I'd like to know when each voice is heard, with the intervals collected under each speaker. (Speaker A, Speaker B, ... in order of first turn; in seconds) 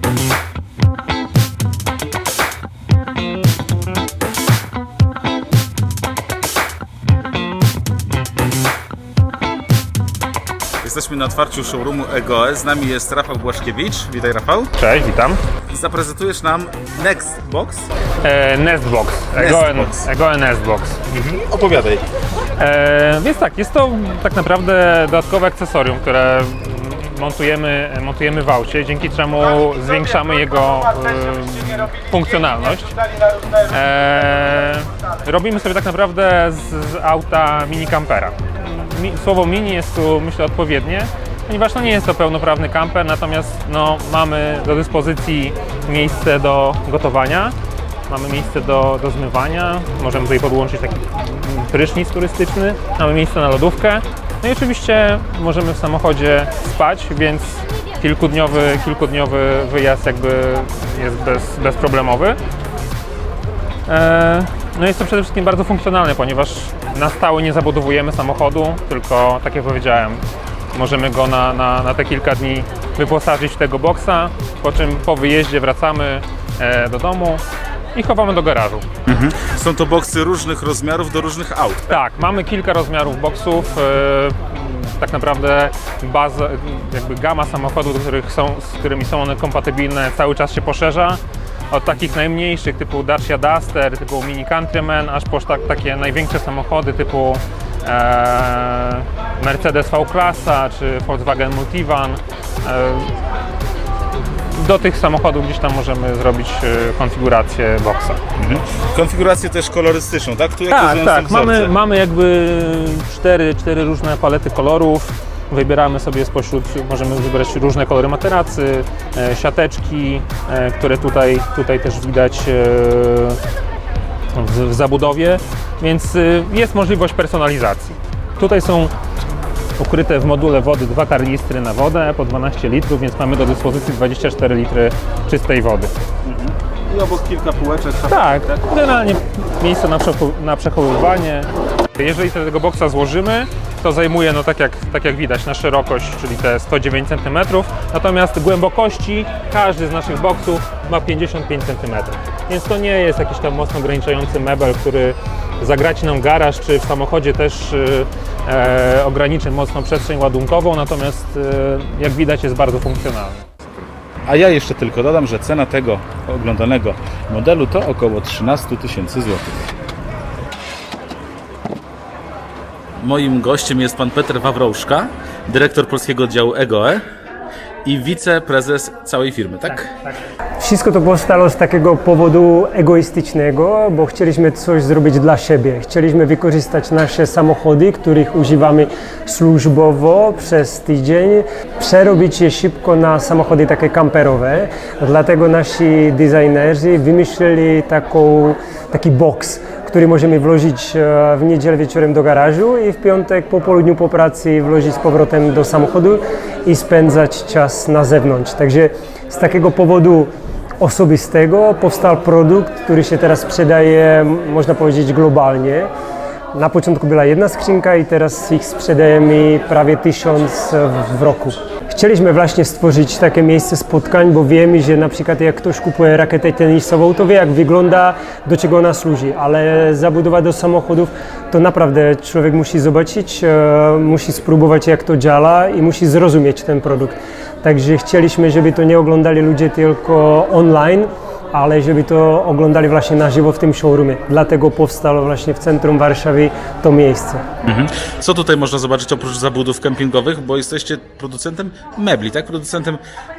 Speaker A: 10.8-14.7, 15.7-17.9, 19.4-20.1, 21.1-22.0, 79.1-81.9, 108.4-111.7, 136.2-138.4, 164.3-169.7, 173.0-177.0, 177.8-179.9, 247.6-253.0
Speaker B: 14.8-15.4, 18.2-21.0, 22.6-33.0, 33.5-47.6, 48.1-62.4, 63.9-77.4, 77.9-78.9, 81.9-103.1, 104.5-108.2, 110.7-123.4, 124.3-128.9, 129.8-135.9, 138.1-163.5
Speaker C: 180.6-215.9, 216.5-247.4